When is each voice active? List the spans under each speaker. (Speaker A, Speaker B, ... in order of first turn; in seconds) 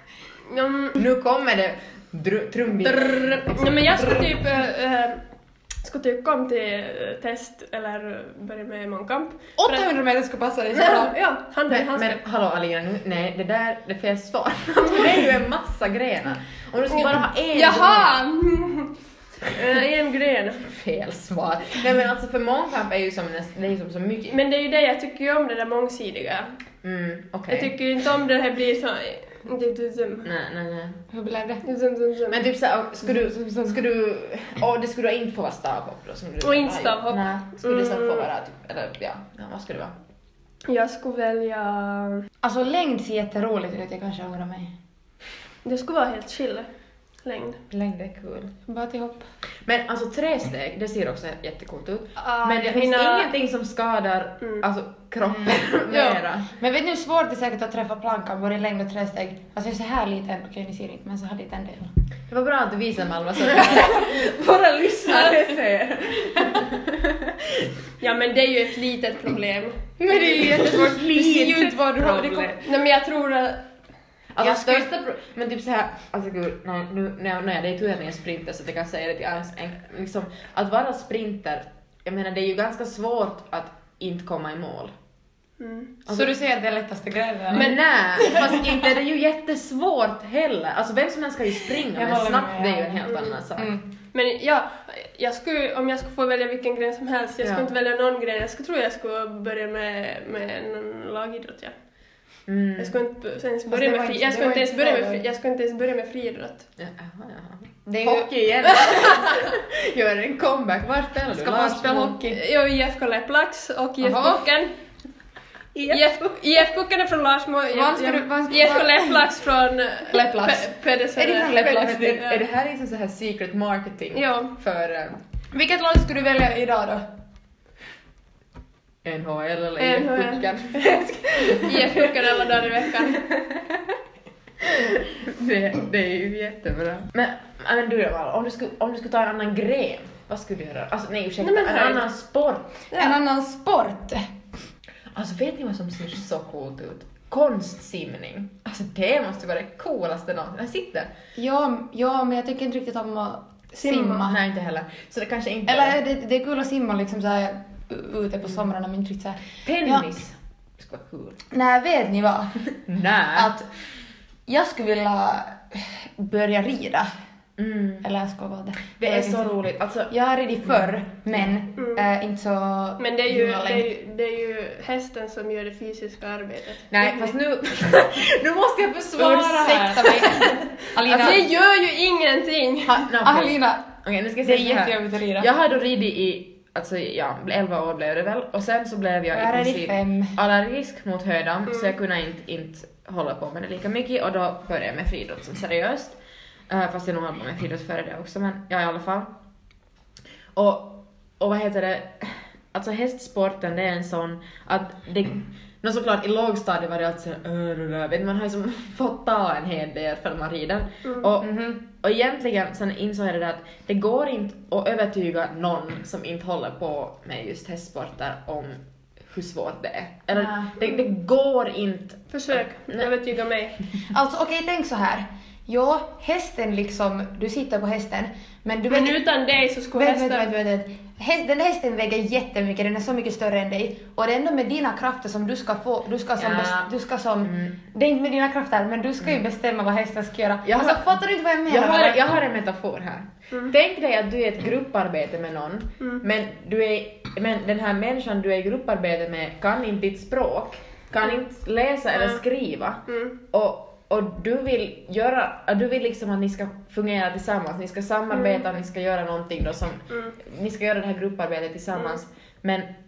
Speaker A: 0.4-1.0, 2.7-5.3, 5.8-9.8, 10.7-12.2, 16.9-18.9, 19.5-20.7, 24.3-26.6, 27.5-30.3, 31.6-32.4, 36.4-38.3, 40.7-42.2, 45.6-46.7, 47.2-47.6, 52.2-53.3, 55.9-56.2, 68.0-69.9, 72.6-73.7, 85.6-85.9, 87.5-87.8, 94.1-101.8, 102.8-106.7, 112.3-114.8, 115.9-122.4, 124.1-124.5, 129.8-133.3, 141.4-142.1, 153.8-154.3, 171.8-172.1, 173.0-177.3, 181.1-183.0, 222.3-223.8, 228.9-230.5, 252.1-252.4, 253.1-253.3
Speaker B: 1.0-4.4, 11.7-18.1, 20.7-24.4, 26.8-27.7, 30.2-31.0, 32.3-39.9, 47.7-48.5, 49.6-56.5, 62.3-67.7, 70.1-72.5, 74.3-84.9, 87.5-93.7, 97.4-97.7, 102.5-103.0, 106.8-112.2, 115.8-116.0, 121.5-125.2, 129.0-132.1, 133.0-134.0, 134.6-142.8, 145.1-151.1, 154.2-156.0, 159.7-161.4, 162.9-163.5, 167.6-168.1, 169.0-170.1, 170.7-171.5, 176.9-181.4, 182.8-196.2, 196.7-199.3, 200.6-223.1, 236.4-236.9, 237.4-237.8, 240.7-262.9
Speaker C: 9.6-11.2, 31.1-31.6, 42.4-44.7, 48.7-49.3, 55.3-55.6, 56.5-61.9, 63.5-64.1, 65.1-65.5, 70.0-72.6, 74.4-74.9, 86.1-88.7, 91.9-93.9, 103.7-105.2, 107.9-108.8, 111.3-112.4, 114.0-114.5, 117.7-119.3, 120.1-122.4, 125.5-127.0, 142.9-144.3, 151.4-154.4, 155.7-160.1, 161.5-162.8, 163.3-163.7, 164.5-167.1, 168.0-173.9, 179.2-181.5, 183.2-185.5, 189.3-190.4, 211.4-211.8, 220.3-220.9, 224.1-229.2, 229.9-242.4